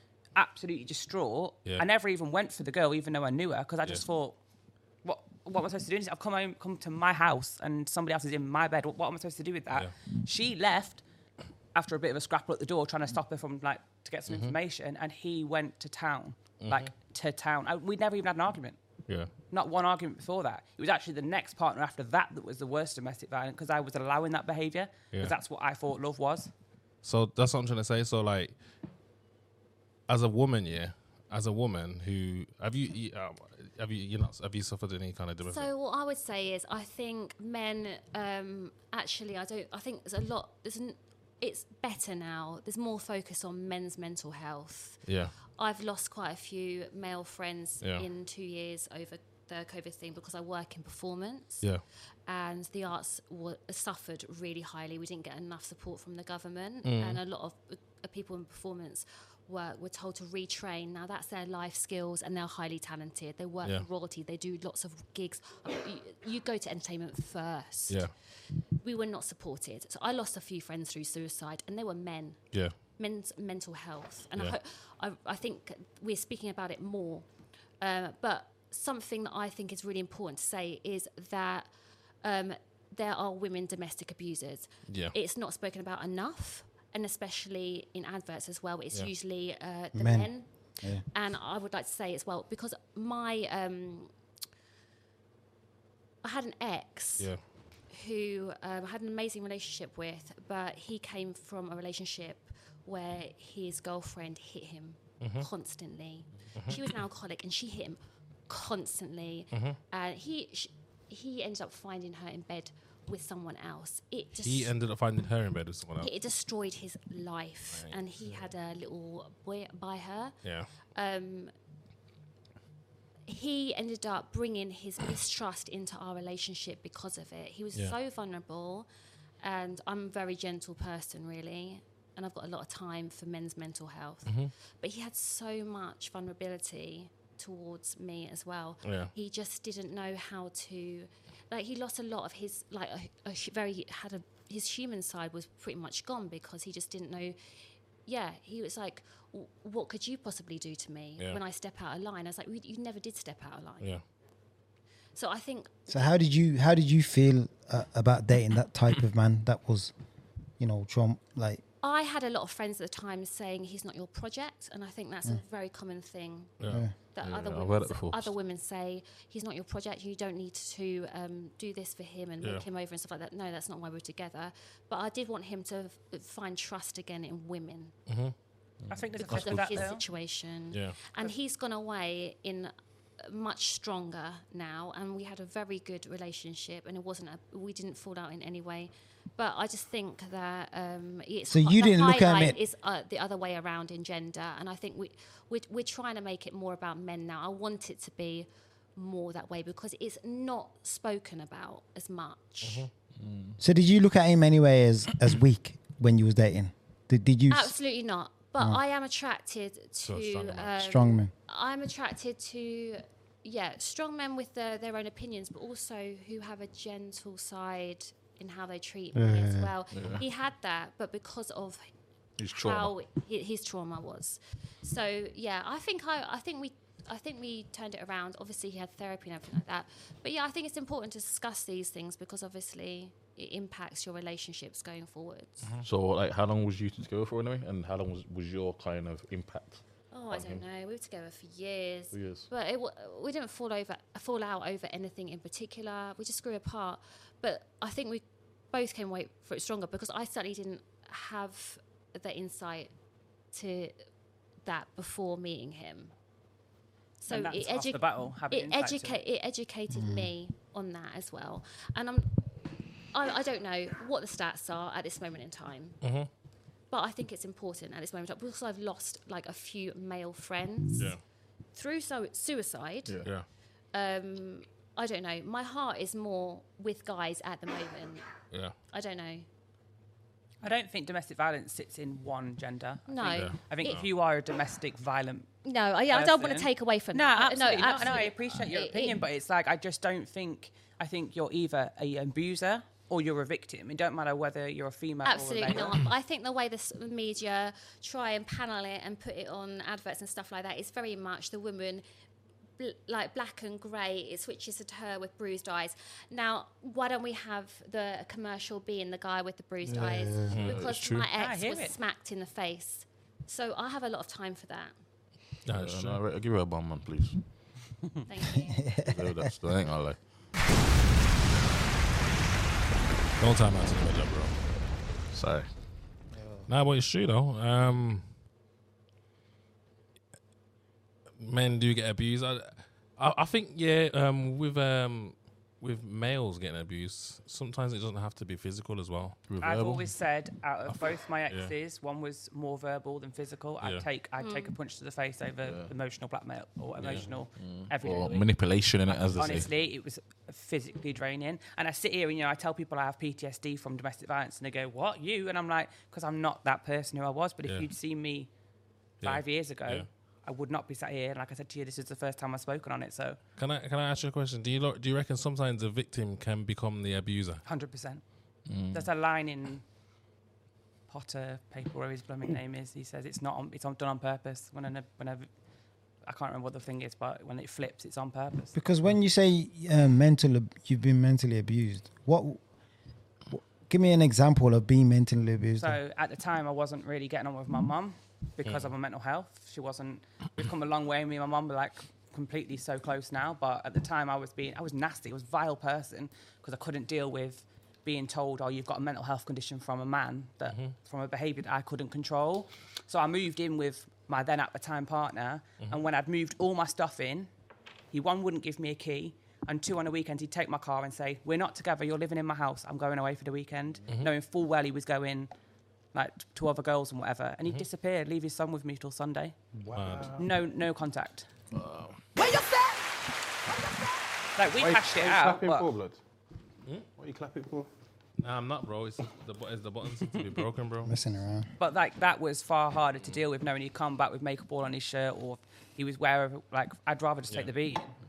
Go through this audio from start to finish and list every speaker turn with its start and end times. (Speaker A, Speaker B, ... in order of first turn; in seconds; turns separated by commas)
Speaker A: 0.3-4.4, Speaker A: 5.0-11.0, Speaker A: 11.7-18.8, Speaker B: 14.3-14.5, Speaker B: 16.6-16.9, Speaker A: 19.5-26.5, Speaker B: 27.0-28.6, Speaker B: 30.1-35.7, Speaker C: 35.5-45.0, Speaker B: 45.0-45.3, Speaker C: 45.6-51.7, Speaker C: 52.3-68.1, Speaker B: 56.8-57.2, Speaker C: 68.8-77.2, Speaker C: 77.8-81.7, Speaker C: 82.2-94.1, Speaker B: 84.9-85.1, Speaker D: 89.9-90.3, Speaker C: 96.2-97.3, Speaker C: 97.9-114.7, Speaker B: 105.2-105.5, Speaker B: 106.5-106.8, Speaker B: 109.5-109.8, Speaker B: 114.4-116.1, Speaker C: 116.0-120.3, Speaker B: 117.7-118.4, Speaker B: 120.4-120.7, Speaker C: 120.9-121.5, Speaker C: 123.3-128.9, Speaker C: 129.4-147.4, Speaker B: 134.2-134.5, Speaker B: 138.8-139.1, Speaker C: 148.1-153.9, Speaker C: 155.2-155.7, Speaker D: 155.9-159.9, Speaker D: 160.6-161.6, Speaker C: 161.8-166.6, Speaker B: 166.6-166.8, Speaker C: 167.1-177.9, Speaker E: 167.2-168.3, Speaker B: 178.1-178.3, Speaker E: 178.8-179.9, Speaker A: 178.9-180.0, Speaker C: 179.2-202.9, Speaker B: 180.7-181.0, Speaker D: 191.5-192.6, Speaker B: 202.6-202.9, Speaker E: 203.2-203.6, Speaker D: 203.6-207.7, Speaker C: 207.5-221.8, Speaker B: 210.0-210.7, Speaker D: 210.8-211.3, Speaker D: 219.1-219.7, Speaker E: 219.9-220.2, Speaker E: 222.4-222.9, Speaker C: 222.6-235.7, Speaker E: 235.8-240.6, Speaker C: 240.1-252.9, Speaker E: 242.1-242.5, Speaker C: 253.5-253.9, Speaker C: 254.6-256.1, Speaker C: 257.2-266.0, Speaker A: 257.3-259.2, Speaker D: 259.9-260.3, Speaker B: 266.0-266.3, Speaker C: 266.9-271.1, Speaker C: 271.7-273.2, Speaker C: 273.9-278.3, Speaker B: 278.5-278.7, Speaker C: 278.9-279.4, Speaker A: 280.6-285.5, Speaker C: 283.1-284.0, Speaker B: 283.3-284.1, Speaker C: 285.6-289.2, Speaker A: 286.1-296.0, Speaker C: 295.2-302.0, Speaker C: 302.8-314.9, Speaker D: 309.8-310.6, Speaker B: 310.5-310.8, Speaker E: 310.5-311.3, Speaker A: 311.4-311.9, Speaker B: 315.6-316.2, Speaker E: 315.7-317.4, Speaker C: 318.3-319.0, Speaker D: 318.5-319.5, Speaker E: 318.9-320.2, Speaker B: 323.4-324.6, Speaker E: 325.3-325.7, Speaker D: 326.3-326.7, Speaker B: 326.7-328.3, Speaker B: 331.4-339.4, Speaker E: 339.5-340.1, Speaker A: 339.6-358.5, Speaker B: 340.9-341.7, Speaker C: 344.4-344.8, Speaker E: 345.6-345.9, Speaker B: 347.0-347.3, Speaker E: 347.1-349.6, Speaker B: 359.2-360.1, Speaker A: 359.2-363.4, Speaker B: 363.6-367.6, Speaker A: 367.6-368.2, Speaker E: 368.7-369.0, Speaker A: 368.9-369.8, Speaker A: 371.1-375.5, Speaker A: 376.2-378.8, Speaker D: 378.7-382.6, Speaker D: 383.5-386.0, Speaker A: 385.8-407.5, Speaker B: 388.6-388.9, Speaker A: 408.1-415.5, Speaker A: 416.1-419.6, Speaker F: 419.8-420.5, Speaker B: 419.9-420.3, Speaker A: 420.4-421.5, Speaker E: 421.7-422.2, Speaker A: 424.6-425.9, Speaker F: 424.6-426.2, Speaker F: 427.1-427.9, Speaker B: 428.4-431.1, Speaker D: 431.0-431.7, Speaker A: 431.8-438.0